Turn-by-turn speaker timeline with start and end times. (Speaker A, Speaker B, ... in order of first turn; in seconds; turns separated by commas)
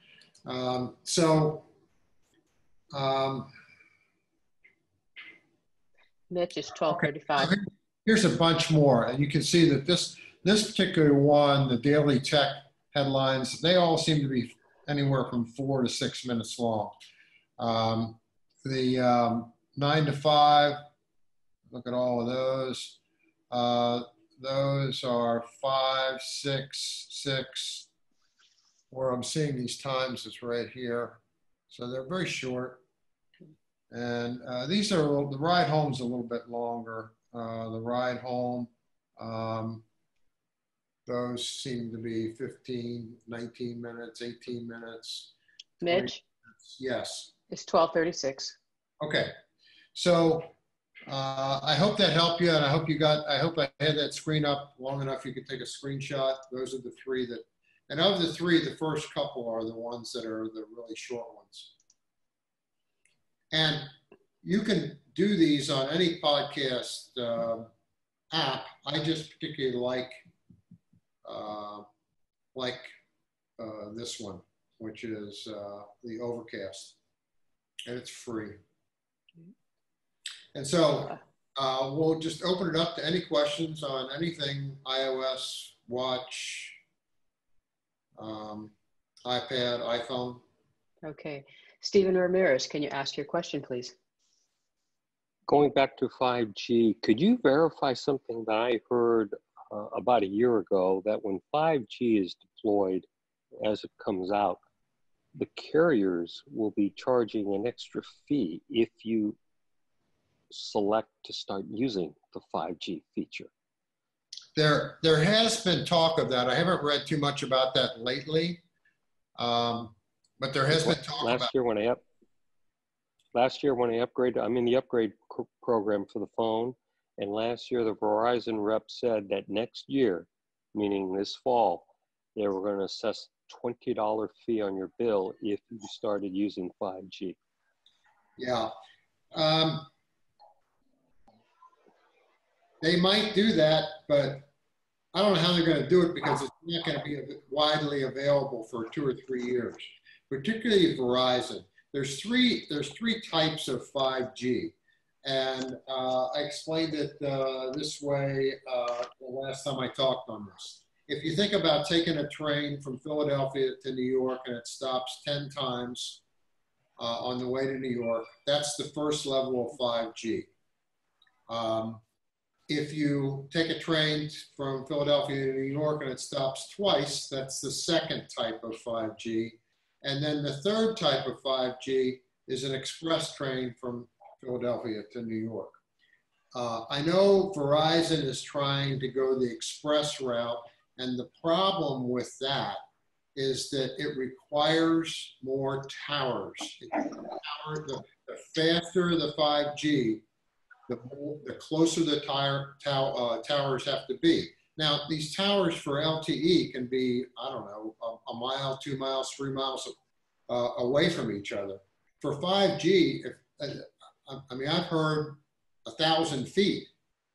Speaker A: 0.5-1.6, Speaker A: 2.9-3.4, Speaker B: 6.3-7.5, Speaker A: 7.4-16.9, Speaker A: 17.6-18.1, Speaker A: 18.6-20.8, Speaker A: 21.7-23.0, Speaker A: 23.5-27.8, Speaker A: 28.9-31.2, Speaker A: 31.7-32.8, Speaker A: 33.9-38.7, Speaker A: 39.2-39.8, Speaker A: 41.1-45.3, Speaker B: 45.8-46.2, Speaker A: 46.8-47.3, Speaker B: 47.5-48.6, Speaker A: 49.0-49.3, Speaker A: 50.0-50.5, Speaker A: 51.1-61.7, Speaker A: 63.5-63.9, Speaker A: 64.4-67.7, Speaker A: 68.3-70.1, Speaker A: 71.2-71.8, Speaker A: 72.5-72.8, Speaker A: 73.6-76.9, Speaker A: 77.9-78.5, Speaker A: 80.5-86.7, Speaker A: 88.2-88.7, Speaker A: 89.3-90.3, Speaker B: 91.0-94.0, Speaker C: 95.5-103.1, Speaker C: 103.6-104.6, Speaker C: 105.3-109.4, Speaker C: 110.5-113.5, Speaker A: 114.6-118.6, Speaker A: 119.4-121.5, Speaker C: 120.7-122.0, Speaker C: 123.3-137.4, Speaker A: 138.4-138.7, Speaker A: 139.3-139.9, Speaker A: 142.8-144.5, Speaker A: 145.1-149.8, Speaker A: 150.3-154.7, Speaker A: 155.2-166.2, Speaker A: 167.0-170.5, Speaker A: 171.5-172.0, Speaker A: 172.7-185.7, Speaker A: 186.5-192.8, Speaker A: 193.3-200.2, Speaker A: 200.9-209.9, Speaker A: 210.5-213.7, Speaker A: 214.3-216.9